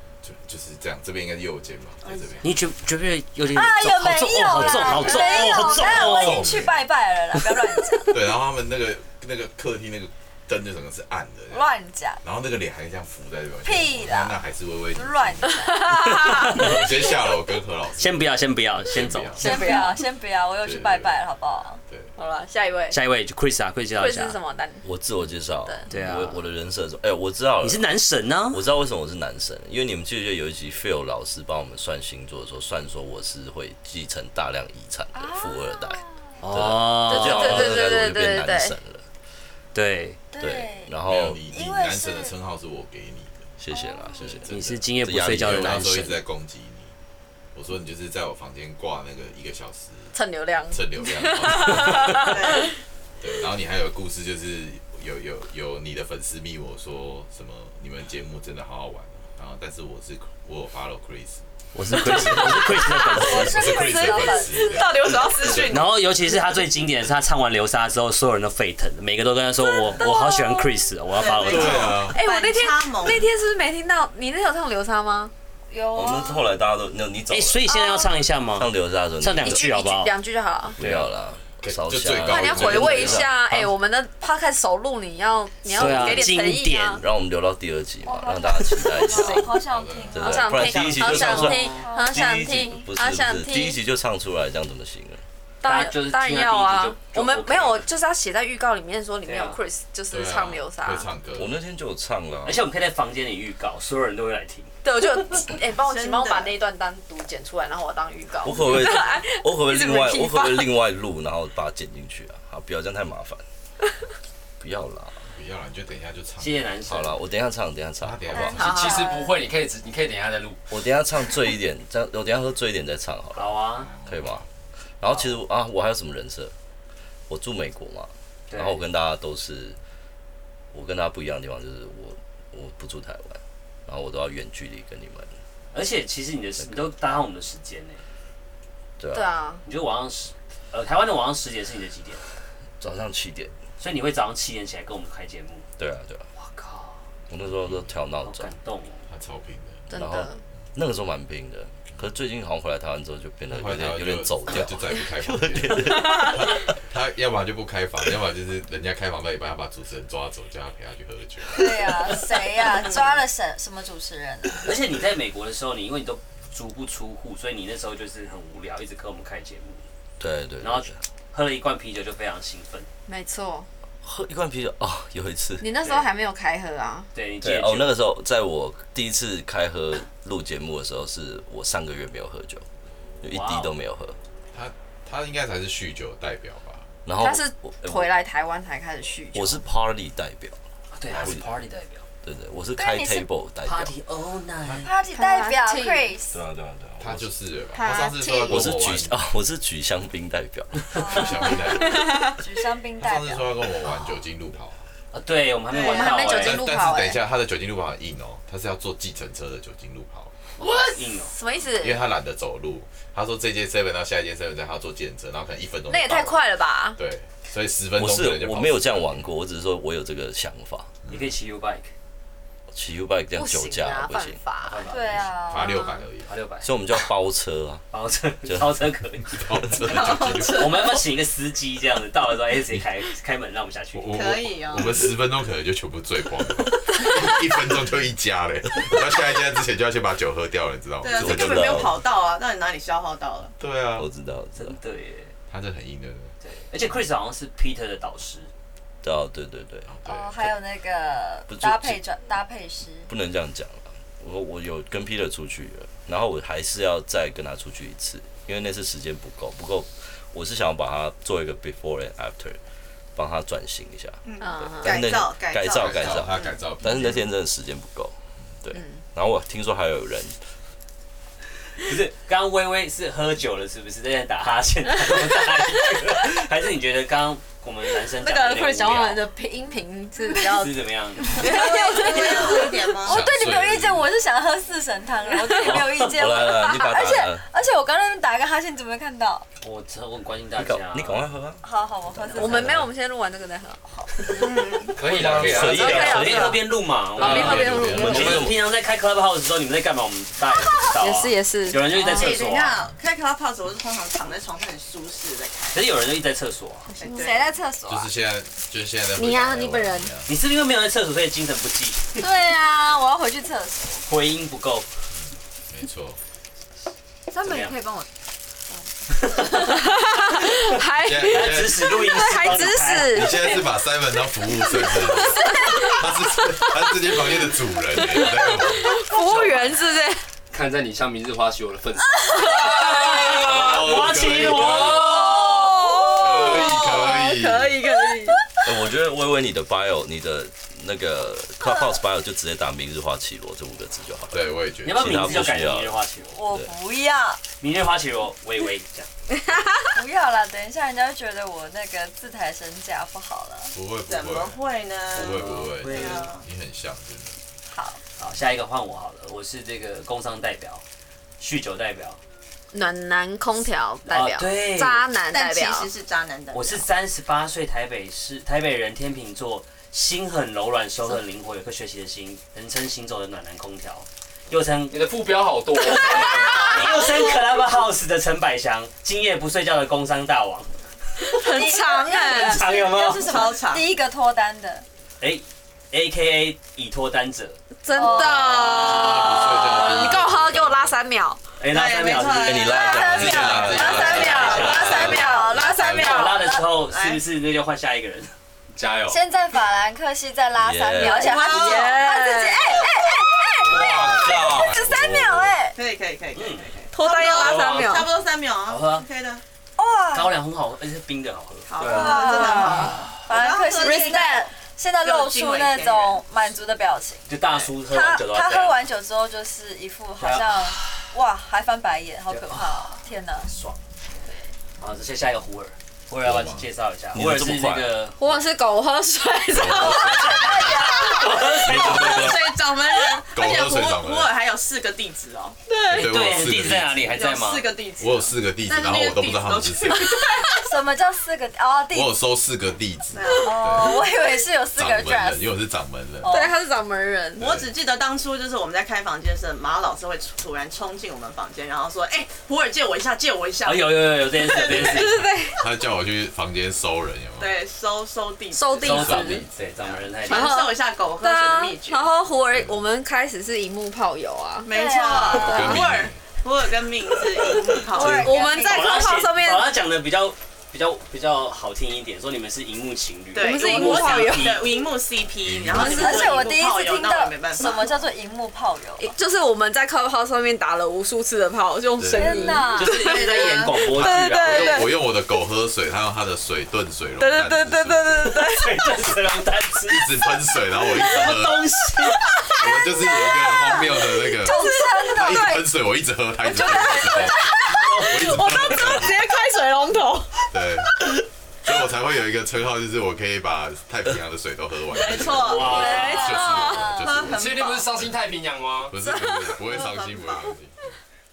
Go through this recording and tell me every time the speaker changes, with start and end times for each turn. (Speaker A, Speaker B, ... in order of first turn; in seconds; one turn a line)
Speaker A: 0.2-2.5
Speaker B: 2.0-2.4
Speaker C: 2.4-6.5
Speaker D: 3.5-8.3
Speaker A: 4.6-6.8
Speaker A: 8.1-11.7
Speaker D: 11.5-12.2
Speaker A: 12.2-15.5
Speaker D: 13.6-14.4
Speaker D: 14.9-16.6
Speaker E: 15.8-16.5
Speaker C: 16.0-16.8
Speaker A: 16.5-18.3
Speaker C: 18.0-19.7
Speaker A: 18.9-19.7
Speaker D: 19.4-21.8
Speaker E: 19.4-20.0
Speaker A: 20.6-21.2
Speaker E: 22.2-23.0
Speaker C: 22.9-24.4
Speaker E: 23.9-24.9
Speaker F: 24.8-27.9
Speaker C: 25.9-26.4
Speaker C: 27.6-28.6
Speaker F: 28.5-39.0
Speaker D: 35.1-36.2
Speaker C: 36.4-37.7
Speaker E: 37.1-38.8
Speaker C: 39.7-40.2
Speaker D: 40.3-41.0
Speaker F: 40.4-41.4
Speaker A: 41.0-43.4
Speaker D: 41.5-42.3
Speaker F: 43.6-44.5
Speaker D: 43.7-44.4
Speaker A: 44.2-46.9
Speaker C: 44.5-46.1
Speaker F: 45.0-46.1
Speaker A: 47.5-50.1
Speaker E: 50.1-52.6
Speaker A: 50.7-52.6
Speaker B: 52.2-52.7
Speaker A: 53.2-61.4
Speaker C: 61.7-63.6
Speaker A: 62.0-62.6
Speaker E: 62.0-65.9
Speaker D: 63.0-64.9
Speaker A: 63.3-65.7
Speaker C: 65.7-71.9
Speaker E: 69.7-70.6
Speaker B: 71.1-73.3
Speaker A: 71.4-72.2
Speaker E: 71.6-75.3
Speaker D: 75.7-76.6
Speaker F: 75.9-77.6
Speaker C: 77.3-80.1
Speaker E: 77.7-78.1
Speaker F: 78.5-79.6
Speaker E: 79.4-80.8
Speaker F: 80.7-83.3
Speaker C: 80.8-81.1
Speaker A: 81.6-83.3
Speaker E: 82.2-87.0
Speaker C: 83.5-83.7
Speaker C: 85.7-87.0
Speaker F: 85.7-86.3
Speaker F: 87.0-89.6
Speaker D: 88.0-92.9
Speaker A: 89.6-90.3
Speaker F: 90.1-95.2
Speaker E: 90.2-93.8
Speaker C: 90.8-91.7
Speaker E: 95.6-101.1
Speaker C: 95.6-97.8
Speaker C: 99.2-99.6
Speaker A: 100.1-101.6
Speaker F: 101.3-102.6
Speaker C: 102.4-104.7
Speaker E: 104.8-110.7
Speaker B: 105.8-106.5
Speaker F: 108.4-113.4
Speaker F: 114.6-115.2
Speaker A: 115.3-117.0
Speaker C: 116.4-117.2
Speaker F: 116.9-118.6
Speaker A: 118.0-118.9
Speaker D: 118.3-119.4
Speaker E: 118.5-119.1
Speaker G: 118.6-120.6
Speaker F: 120.7-124.5
Speaker C: 123.3-123.9
Speaker A: 123.9-124.4
Speaker F: 125.0-126.5
Speaker F: 127.3-129.8
Speaker C: 128.5-128.8
Speaker F: 130.7-135.3
Speaker C: 135.7-138.0
Speaker F: 136.6-136.9
Speaker F: 139.0-139.3
Speaker E: 139.1-139.6
Speaker C: 139.6-142.2
Speaker F: 142.8-143.5
Speaker C: 143.8-145.6
Speaker F: 145.8-146.2
Speaker C: 146.3-147.0
Speaker F: 147.3-148.5
Speaker A: 147.6-147.9
Speaker C: 148.2-149.1
Speaker A: 149.1-149.9
Speaker E: 149.9-150.4
Speaker F: 149.9-156.6
Speaker A: 153.5-162.1
Speaker D: 161.5-164.7
Speaker C: 164.6-169.8
Speaker F: 170.2-171.0
Speaker C: 170.6-172.9
Speaker E: 173.1-173.7
Speaker F: 174.0-175.7
Speaker E: 175.6-177.1
Speaker C: 175.8-176.1
Speaker C: 177.1-178.0
Speaker F: 177.4-182.7
Speaker F: 183.2-184.2
Speaker C: 183.3-183.7
Speaker A: 184.5-186.9
Speaker F: 187.1-188.1
Speaker E: 187.1-189.6
Speaker F: 189.3-190.6
Speaker C: 190.9-192.0
Speaker F: 191.1-191.5
Speaker F: 192.2-193.9
Speaker D: 192.8-193.2
Speaker C: 193.6-194.9
Speaker D: 194.8-196.4
Speaker E: 195.1-196.1
Speaker F: 196.3-197.3
Speaker A: 197.0-199.2
Speaker E: 197.7-198.8
Speaker F: 198.4-201.0
Speaker D: 200.9-203.7
Speaker A: 200.9-202.3
Speaker E: 202.0-202.3
Speaker A: 203.0-204.8
Speaker C: 205.1-206.6
Speaker B: 205.7-206.2
Speaker E: 205.8-207.2
Speaker A: 206.2-210.3
Speaker C: 210.6-211.3
Speaker E: 211.2-212.1
Speaker A: 211.8-219.1
Speaker E: 215.9-217.0
Speaker F: 218.0-220.9
Speaker C: 221.1-221.9
Speaker F: 222.7-224.4
Speaker E: 223.3-224.9
Speaker C: 224.6-225.2
Speaker D: 224.9-226.1
Speaker A: 225.5-226.3
Speaker C: 226.2-226.7
Speaker F: 226.6-227.8
Speaker C: 227.9-234.1
Speaker F: 228.4-228.7
Speaker A: 229.3-230.9
Speaker A: 233.9-241.9
Speaker B: 234.1-235.0
Speaker B: 241.0-243.5
Speaker F: 241.1-242.0
Speaker A: 243.6-244.1
Speaker F: 243.9-244.8
Speaker C: 244.6-245.3
Speaker A: 245.5-246.3
Speaker C: 246.4-248.5
Speaker F: 249.0-249.9
Speaker A: 249.9-250.4
Speaker D: 250.1-253.1
Speaker F: 251.5-252.0
Speaker F: 253.1-262.6
Speaker F: 263.1-264.2
Speaker B: 264.2-266.6
Speaker E: 264.4-265.1
Speaker F: 264.8-270.4
Speaker A: 265.7-267.3
Speaker E: 268.7-269.0
Speaker C: 271.8-279.2
Speaker E: 278.2-282.9
Speaker C: 280.5-282.6
Speaker B: 281.4-283.2
Speaker D: 281.4-289.4
Speaker A: 283.1-284.1
Speaker C: 285.6-286.0
Speaker F: 285.7-287.4
Speaker C: 289.6-291.2
Speaker F: 290.6-292.9
Speaker D: 291.6-292.7
Speaker E: 292.3-295.0
Speaker G: 294.9-296.2
Speaker F: 295.0-296.6
Speaker A: 295.2-295.6
Speaker E: 295.6-296.7
Speaker C: 295.7-302.8
Speaker G: 297.2-298.4
Speaker E: 297.2-298.3
Speaker A: 297.3-298.4
Speaker F: 297.7-298.6
Speaker E: 300.9-302.4
Speaker B: 301.9-305.9
Speaker C: 305.7-306.9
Speaker B: 306.9-307.5
Speaker D: 307.0-308.1
Speaker A: 307.9-310.3
Speaker E: 309.1-310.1
Speaker C: 310.3-312.2
Speaker D: 312.2-314.0
Speaker C: 314.1-314.9
Speaker A: 315.1-316.2
Speaker D: 317.3-318.1
Speaker C: 317.4-317.7
Speaker C: 319.1-319.8
Speaker E: 319.6-323.6
Speaker C: 320.4-323.4
Speaker A: 321.0-329.0
Speaker E: 324.8-330.2
Speaker G: 329.1-329.7
Speaker G: 330.5-333.9
Speaker E: 332.3-332.8
Speaker C: 332.8-335.6
Speaker A: 333.2-335.3
Speaker G: 334.5-335.7
Speaker E: 335.6-338.4
Speaker A: 336.1-337.9
Speaker D: 336.4-337.0
Speaker F: 338.6-346.7
Speaker D: 341.6-342.0
Speaker A: 344.3-345.6
Speaker C: 344.8-346.4
Speaker D: 346.3-347.4
Speaker C: 347.6-349.1
Speaker D: 349.9-353.7
Speaker A: 353.7-354.6
Speaker B: 354.1-356.4
Speaker A: 355.1-357.4
Speaker C: 355.2-356.2
Speaker D: 357.7-358.0
Speaker C: 358.2-360.8
Speaker C: 361.4-362.2
Speaker E: 362.7-365.9
Speaker C: 364.1-365.1
Speaker B: 365.2-366.9
Speaker C: 366.5-375.1
Speaker G: 374.9-377.0
Speaker C: 375.9-380.7
Speaker E: 375.9-376.8
Speaker D: 376.2-377.1
Speaker E: 381.2-382.6
Speaker D: 381.4-384.9
Speaker C: 382.2-383.5
Speaker B: 382.7-383.9
Speaker C: 385.2-387.6
Speaker E: 387.8-391.4
Speaker D: 387.9-389.5
Speaker A: 388.1-390.9
Speaker C: 388.4-389.9
Speaker F: 390.1-390.6
Speaker C: 391.6-392.7
Speaker B: 391.6-393.4
Speaker F: 392.4-396.1
Speaker D: 392.6-395.5
Speaker A: 393.1-396.1
Speaker E: 393.8-396.5
Speaker C: 394.2-395.2
Speaker C: 395.9-398.3
Speaker B: 396.3-397.2
Speaker G: 398.7-399.2
Speaker D: 399.1-403.5
Speaker F: 400.6-401.2
Speaker E: 401.0-403.7
Speaker B: 401.0-402.0
Speaker A: 403.6-405.6
Speaker F: 403.6-404.9
Speaker D: 404.7-405.8
Speaker B: 405.7-409.4
Speaker C: 406.3-406.7
Speaker E: 406.9-408.1
Speaker G: 407.3-407.9
Speaker C: 408.7-409.0
Speaker D: 409.8-410.3
Speaker C: 410.1-412.9
Speaker B: 411.6-414.3
Speaker E: 411.8-412.9
Speaker D: 411.9-412.7
Speaker D: 413.2-417.3
Speaker E: 413.8-414.5
Speaker B: 415.0-416.2
Speaker C: 417.3-418.8
Speaker D: 417.8-423.5
Speaker C: 420.2-421.0
Speaker C: 422.3-423.8
Speaker C: 424.8-428.3
Speaker A: 426.2-426.6
Speaker F: 427.1-427.9
Speaker E: 428.2-433.3
Speaker A: 429.5-432.6
Speaker D: 430.4-430.8
Speaker C: 430.4-432.4
Speaker B: 433.3-435.6
Speaker A: 433.3-434.3
Speaker E: 435.7-436.1
Speaker C: 435.9-437.6
Speaker A: 435.9-437.1
Speaker B: 437.0-440.3
Speaker A: 438.0-440.2
Speaker E: 439.9-440.6
Speaker D: 440.5-442.2
Speaker A: 441.9-444.0
Speaker B: 443.1-443.6
Speaker D: 443.4-445.6
Speaker A: 444.8-446.3
Speaker D: 446.2-446.6
Speaker E: 446.2-447.5
Speaker B: 447.4-454.2
Speaker A: 447.4-447.7
Speaker C: 453.6-455.3
Speaker E: 454.4-455.7
Speaker A: 454.7-457.6
Speaker B: 457.4-462.1
Speaker E: 458.5-459.4
Speaker C: 458.8-460.6
Speaker A: 458.9-459.5
Speaker E: 460.2-464.7
Speaker A: 462.4-462.8
Speaker B: 464.6-468.5
Speaker D: 464.7-465.8
Speaker A: 465.3-466.2
Speaker D: 467.9-469.0
Speaker E: 467.9-469.7
Speaker C: 468.1-474.7
Speaker B: 473.3-477.9
Speaker E: 473.4-474.8
Speaker A: 475.4-476.1
Speaker E: 475.7-476.3
Speaker D: 475.7-479.1
Speaker C: 475.9-476.4
Speaker E: 479.0-484.9
Speaker A: 482.0-482.6
Speaker D: 482.1-483.7
Speaker C: 482.8-484.9
Speaker A: 484.0-488.3
Speaker E: 487.2-488.8
Speaker C: 488.2-490.3
Speaker A: 489.9-491.6
Speaker C: 490.9-492.2
Speaker E: 492.3-495.6
Speaker A: 492.5-499.3
Speaker D: 494.4-495.6
Speaker E: 496.4-500.5
Speaker C: 497.6-498.9
Speaker A: 500.5-500.9
Speaker A: 501.6-508.2
Speaker B: 504.9-506.2
Speaker C: 505.4-506.2
Speaker E: 505.5-506.9
Speaker D: 505.6-507.2
Speaker B: 507.0-508.0
Speaker G: 507.3-508.9
Speaker A: 508.9-511.0
Speaker E: 508.9-510.5